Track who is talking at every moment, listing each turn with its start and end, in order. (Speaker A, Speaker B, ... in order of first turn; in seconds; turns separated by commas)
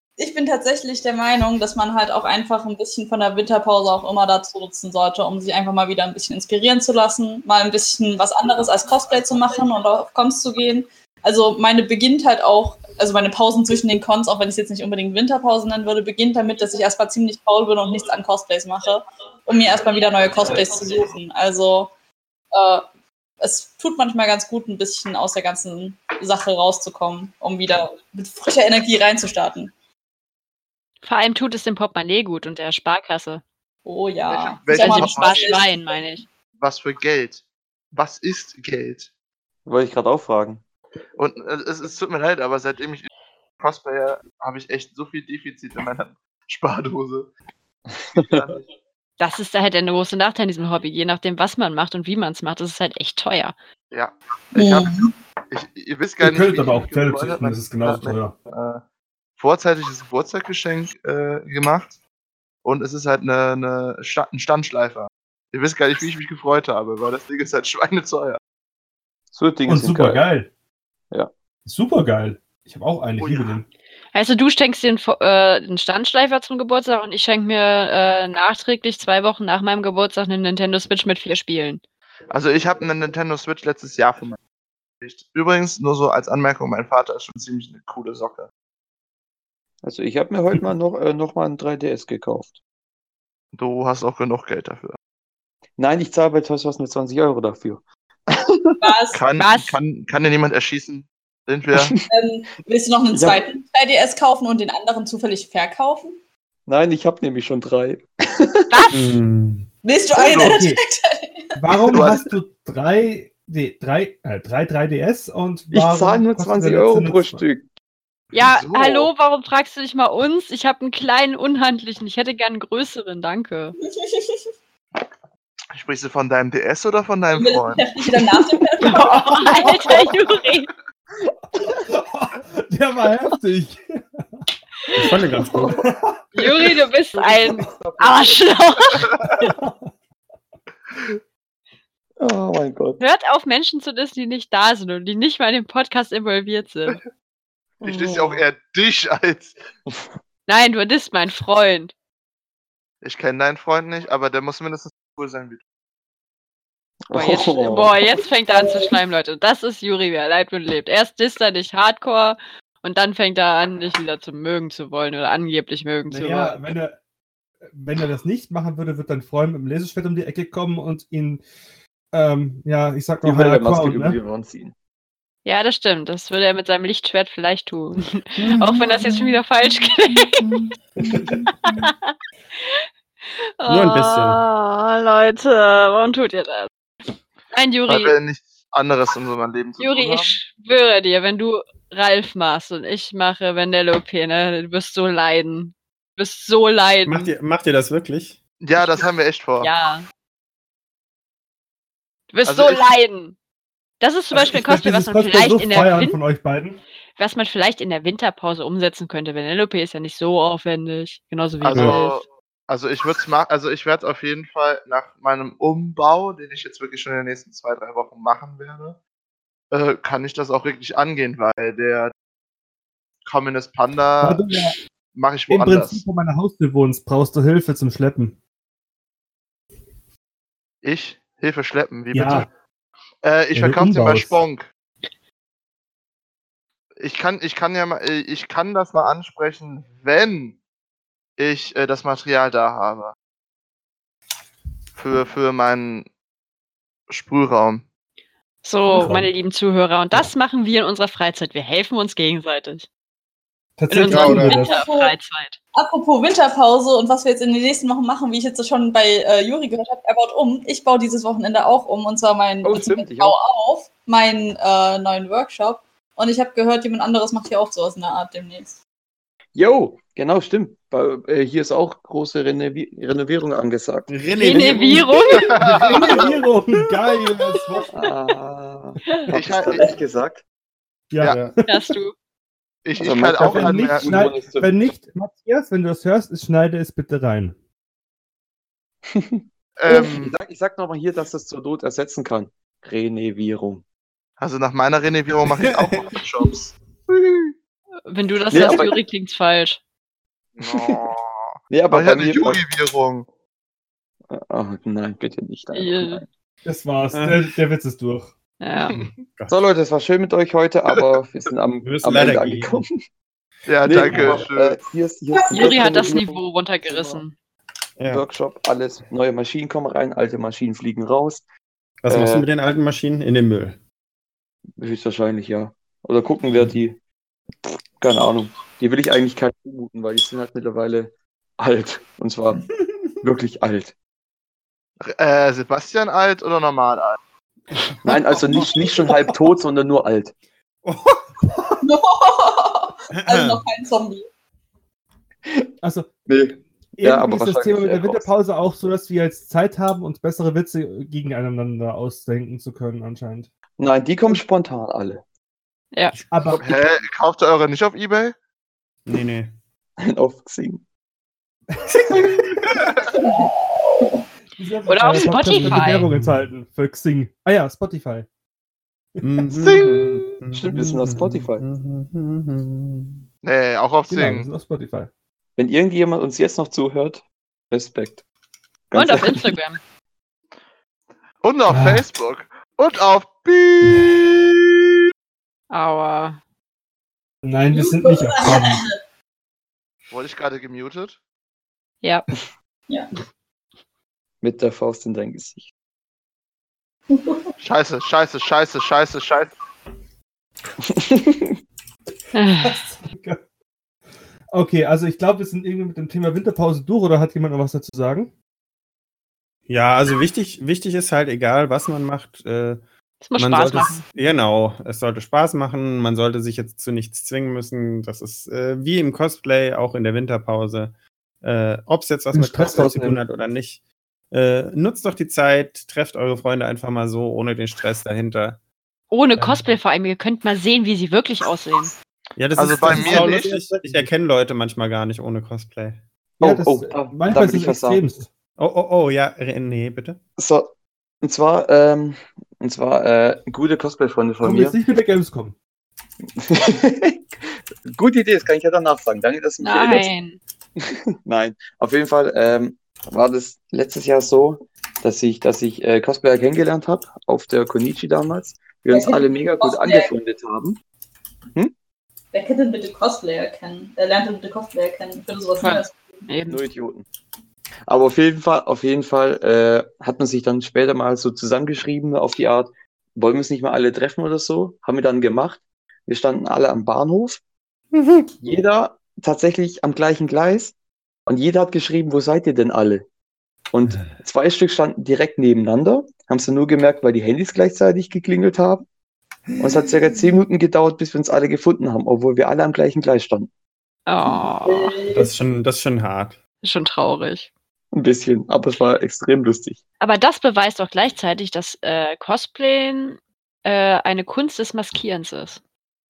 Speaker A: 0.2-21.9, Speaker A: 22.5-22.8, Speaker A: 23.4-29.7, Speaker B: 31.0-33.4, Speaker A: 33.9-35.8, Speaker C: 34.3-35.5, Speaker B: 34.7-36.2, Speaker C: 36.6-39.1, Speaker D: 39.6-40.6, Speaker C: 41.2-47.3, Speaker C: 48.2-48.6, Speaker B: 49.2-53.5, Speaker C: 53.9-54.9, Speaker A: 54.5-55.1, Speaker C: 55.5-58.8, Speaker E: 56.2-58.4, Speaker C: 59.4-62.0, Speaker C: 62.6-68.4, Speaker D: 69.3-70.2, Speaker E: 69.7-70.5, Speaker E: 71.6-73.7, Speaker C: 73.2-73.6, Speaker B: 74.1-81.8, Speaker C: 82.3-84.4, Speaker C: 85.0-88.5, Speaker D: 89.8-92.6, Speaker C: 93.5-95.0, Speaker D: 95.8-98.8, Speaker A: 98.8-99.2, Speaker C: 99.1-101.9, Speaker B: 99.4-99.8, Speaker D: 101.7-102.0, Speaker A: 102.1-106.2, Speaker D: 103.1-103.4, Speaker D: 106.7-108.8, Speaker B: 108.7-109.0, Speaker F: 108.9-109.7, Speaker A: 109.8-111.4, Speaker C: 110.2-110.6, Speaker E: 110.3-110.8, Speaker E: 111.5-117.4, Speaker C: 111.8-112.3, Speaker D: 115.7-117.6, Speaker C: 118.3-119.1, Speaker B: 118.3-123.8, Speaker A: 123.9-124.4, Speaker C: 125.7-127.8, Speaker A: 127.3-129.2, Speaker B: 128.9-130.7, Speaker E: 129.0-129.6, Speaker E: 131.6-134.2, Speaker F: 134.9-135.8, Speaker E: 135.7-136.6, Speaker B: 136.3-139.1, Speaker D: 137.1-139.0, Speaker E: 139.4-139.9, Speaker D: 142.2-143.0, Speaker B: 143.0-147.0, Speaker D: 147.8-148.4, Speaker C: 147.8-149.5, Speaker D: 149.8-150.2, Speaker B: 150.5-151.9, Speaker C: 153.0-155.6, Speaker D: 157.1-157.9, Speaker B: 157.1-166.6, Speaker A: 158.5-158.9, Speaker E: 166.1-167.0, Speaker E: 167.7-171.4, Speaker E: 172.1-174.2, Speaker D: 173.2-174.7, Speaker B: 175.4-180.5, Speaker F: 178.4-179.3, Speaker F: 180.4-181.5, Speaker B: 181.8-182.1, Speaker B: 183.6-186.7, Speaker F: 183.6-184.4, Speaker B: 187.5-188.2, Speaker C: 187.9-190.3, Speaker B: 189.8-197.3, Speaker F: 197.0-198.4, Speaker C: 198.6-199.7, Speaker B: 199.6-200.1, Speaker B: 202.3-203.3, Speaker C: 202.4-202.8, Speaker B: 204.0-206.2, Speaker E: 204.3-206.8, Speaker B: 207.2-212.2, Speaker C: 211.6-219.0, Speaker F: 211.7-212.0, Speaker C: 219.7-222.1, Speaker C: 223.2-224.5, Speaker E: 224.2-224.8, Speaker C: 225.1-226.0, Speaker E: 225.5-228.3, Speaker C: 230.8-232.5, Speaker E: 232.1-232.5, Speaker C: 233.2-234.7, Speaker E: 233.5-234.4, Speaker C: 237.0-240.6, Speaker C: 241.4-243.1, Speaker C: 244.9-246.1, Speaker C: 247.1-247.8, Speaker B: 248.6-252.9, Speaker E: 248.9-249.3, Speaker E: 253.8-254.8, Speaker B: 253.9-255.6, Speaker F: 254.1-254.6, Speaker A: 254.4-255.1, Speaker A: 255.7-268.8, Speaker D: 262.6-263.4, Speaker D: 269.5-274.1, Speaker F: 274.1-275.7, Speaker B: 274.4-275.6, Speaker C: 275.3-276.4, Speaker E: 275.6-277.9, Speaker D: 277.9-280.4, Speaker C: 279.3-279.9, Speaker E: 281.1-281.8, Speaker F: 281.2-281.5, Speaker B: 281.7-282.1, Speaker C: 282.8-284.1, Speaker D: 283.0-284.7, Speaker E: 283.4-287.6, Speaker D: 289.1-293.8, Speaker C: 289.8-290.3, Speaker C: 294.4-296.7, Speaker F: 295.6-296.0, Speaker B: 298.1-299.8, Speaker D: 298.5-299.0, Speaker C: 300.6-303.3, Speaker D: 300.7-301.0, Speaker D: 301.7-302.7, Speaker D: 304.3-306.3, Speaker B: 305.7-306.2, Speaker E: 306.6-308.3, Speaker F: 307.1-307.5, Speaker B: 308.6-309.0, Speaker F: 308.9-309.6, Speaker D: 309.5-313.0, Speaker F: 311.8-312.8, Speaker C: 313.6-314.8, Speaker D: 313.8-317.2, Speaker F: 313.9-314.5, Speaker B: 315.5-317.3, Speaker F: 318.0-318.2, Speaker D: 318.1-321.4, Speaker F: 322.0-323.8, Speaker D: 322.1-322.5, Speaker D: 324.8-327.0, Speaker D: 327.6-332.7, Speaker D: 333.2-333.9, Speaker C: 335.0-337.2, Speaker D: 338.0-340.3, Speaker F: 340.8-341.8, Speaker A: 341.8-344.3, Speaker F: 343.1-343.6, Speaker D: 345.4-345.7, Speaker E: 345.8-346.3, Speaker D: 346.3-348.3, Speaker E: 347.0-353.5, Speaker D: 353.8-355.2, Speaker E: 356.3-356.8, Speaker C: 356.5-358.4, Speaker F: 359.1-359.5, Speaker D: 360.0-360.8, Speaker E: 361.7-362.4, Speaker F: 361.9-363.0, Speaker E: 364.6-368.3, Speaker B: 364.9-366.0, Speaker F: 365.6-366.5, Speaker F: 369.2-373.2, Speaker C: 369.5-370.4, Speaker D: 370.5-371.6, Speaker C: 373.4-374.5, Speaker E: 374.1-375.1, Speaker D: 375.6-378.2, Speaker D: 378.9-379.5, Speaker B: 378.9-379.8, Speaker C: 381.4-384.7, Speaker E: 381.7-382.1, Speaker B: 385.7-386.4, Speaker E: 387.4-388.8, Speaker A: 387.7-388.9, Speaker C: 390.1-391.2, Speaker B: 392.0-392.3, Speaker D: 394.4-395.7, Speaker A: 397.1-397.4, Speaker C: 397.6-399.5, Speaker D: 400.8-401.6, Speaker B: 402.3-402.8, Speaker E: 402.6-403.4, Speaker E: 404.5-408.3, Speaker F: 409.7-412.8, Speaker B: 413.2-414.0, Speaker F: 413.4-428.6, Speaker E: 422.3-423.2, Speaker B: 429.1-431.9, Speaker F: 432.4-436.0, Speaker C: 432.6-433.6, Speaker E: 432.9-434.1, Speaker D: 436.4-438.0, Speaker E: 436.4-438.3, Speaker F: 438.6-440.2, Speaker D: 440.4-444.8, Speaker E: 444.4-445.6, Speaker D: 446.4-447.2, Speaker D: 447.9-450.1, Speaker B: 449.6-450.4, Speaker D: 450.8-460.8, Speaker A: 458.9-460.1, Speaker A: 462.3-466.2, Speaker B: 465.6-466.6, Speaker D: 466.5-467.1, Speaker D: 467.9-477.4, Speaker F: 477.9-478.3, Speaker D: 478.4-480.7, Speaker D: 481.2-483.0, Speaker D: 483.7-488.9, Speaker D: 489.6-493.5, Speaker B: 494.1-494.9, Speaker A: 494.6-495.3, Speaker F: 495.1-496.4, Speaker B: 496.6-497.5, Speaker D: 497.9-499.8, Speaker B: 500.0-505.6